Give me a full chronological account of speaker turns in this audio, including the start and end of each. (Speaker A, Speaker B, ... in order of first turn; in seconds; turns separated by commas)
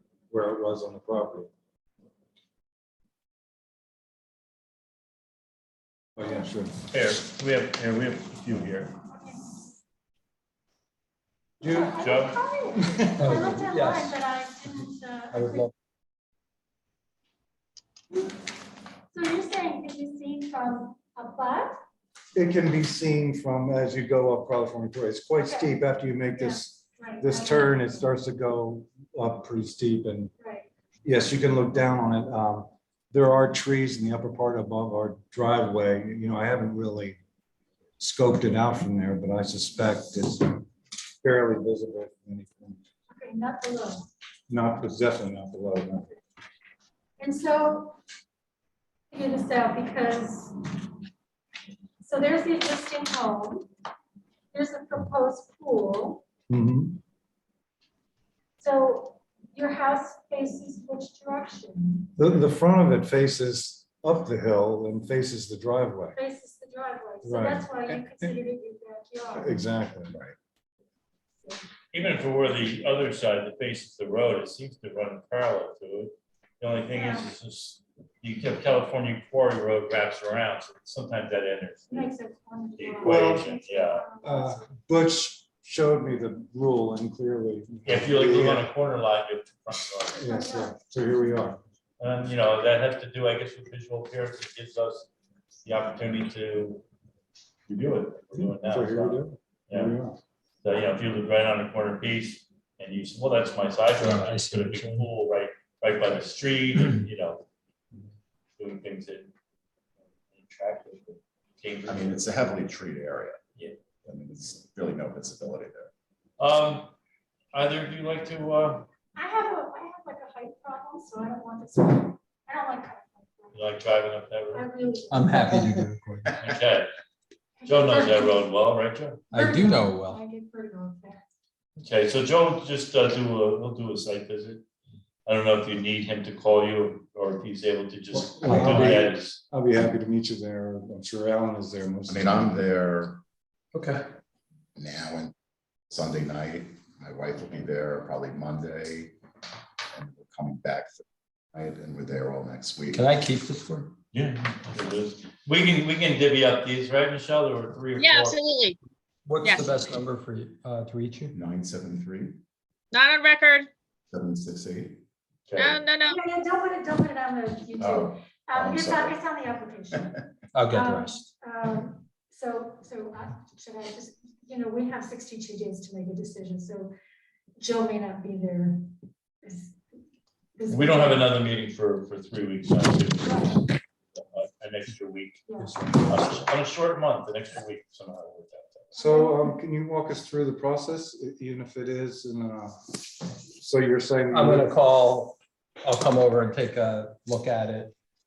Speaker A: 0.3-1.5, Speaker A: 6.2-6.8, Speaker B: 6.9-8.9, Speaker C: 9.1-9.6, Speaker A: 11.6-12.0, Speaker C: 11.6-15.7, Speaker B: 12.0-12.4, Speaker A: 12.7-13.5, Speaker D: 13.2-14.2, Speaker D: 15.3-15.7, Speaker C: 18.1-18.5, Speaker C: 19.1-21.8, Speaker A: 22.4-30.3, Speaker C: 25.4-25.8, Speaker C: 26.3-28.1, Speaker C: 30.4-30.7, Speaker A: 31.0-37.2, Speaker A: 38.0-40.7, Speaker A: 41.2-42.8, Speaker C: 43.1-44.1, Speaker A: 44.5-46.1, Speaker C: 47.2-48.0, Speaker C: 49.1-51.0, Speaker C: 52.0-53.7, Speaker C: 54.5-56.2, Speaker A: 56.5-57.0, Speaker C: 58.6-62.2, Speaker A: 62.2-66.2, Speaker C: 66.2-69.7, Speaker A: 67.2-68.4, Speaker A: 69.3-70.2, Speaker B: 71.9-82.1, Speaker C: 76.9-77.3, Speaker C: 81.9-84.7, Speaker B: 82.8-84.1, Speaker A: 83.0-83.5, Speaker A: 84.2-88.7, Speaker B: 87.8-90.2, Speaker C: 90.1-90.8, Speaker A: 90.2-91.6, Speaker B: 92.0-95.1, Speaker B: 95.6-96.8, Speaker B: 97.7-100.0, Speaker A: 98.3-100.2, Speaker B: 100.6-107.5, Speaker D: 104.0-105.1, Speaker B: 108.6-109.3, Speaker B: 110.3-112.5, Speaker E: 111.9-113.4, Speaker E: 114.0-115.9, Speaker B: 116.4-116.9, Speaker B: 117.5-118.9, Speaker C: 119.2-123.8, Speaker B: 123.5-124.7, Speaker C: 124.5-125.8, Speaker D: 125.1-126.4, Speaker B: 126.4-126.9, Speaker C: 127.6-128.5, Speaker B: 127.7-129.3, Speaker D: 129.3-130.2, Speaker C: 129.3-131.2, Speaker B: 131.8-134.6, Speaker B: 135.3-139.4, Speaker A: 138.1-142.6, Speaker D: 138.5-139.0, Speaker E: 142.1-143.2, Speaker D: 143.7-144.0, Speaker E: 144.8-145.3, Speaker E: 145.9-149.2, Speaker E: 149.9-153.1, Speaker D: 152.9-153.9, Speaker B: 154.1-158.4, Speaker F: 158.0-158.8, Speaker D: 159.2-161.3, Speaker F: 159.4-159.8, Speaker E: 161.3-162.4, Speaker F: 162.9-163.7, Speaker E: 164.1-165.0, Speaker B: 165.5-165.8, Speaker F: 165.6-166.2, Speaker C: 166.0-176.9, Speaker E: 167.8-169.3, Speaker D: 170.5-171.2, Speaker C: 177.6-178.9, Speaker C: 179.4-179.8, Speaker C: 180.6-181.4, Speaker B: 180.7-185.5, Speaker C: 183.2-183.6, Speaker C: 185.5-185.8, Speaker A: 185.6-186.1, Speaker B: 186.1-189.0, Speaker C: 188.9-189.5, Speaker A: 189.0-194.7, Speaker D: 194.3-197.9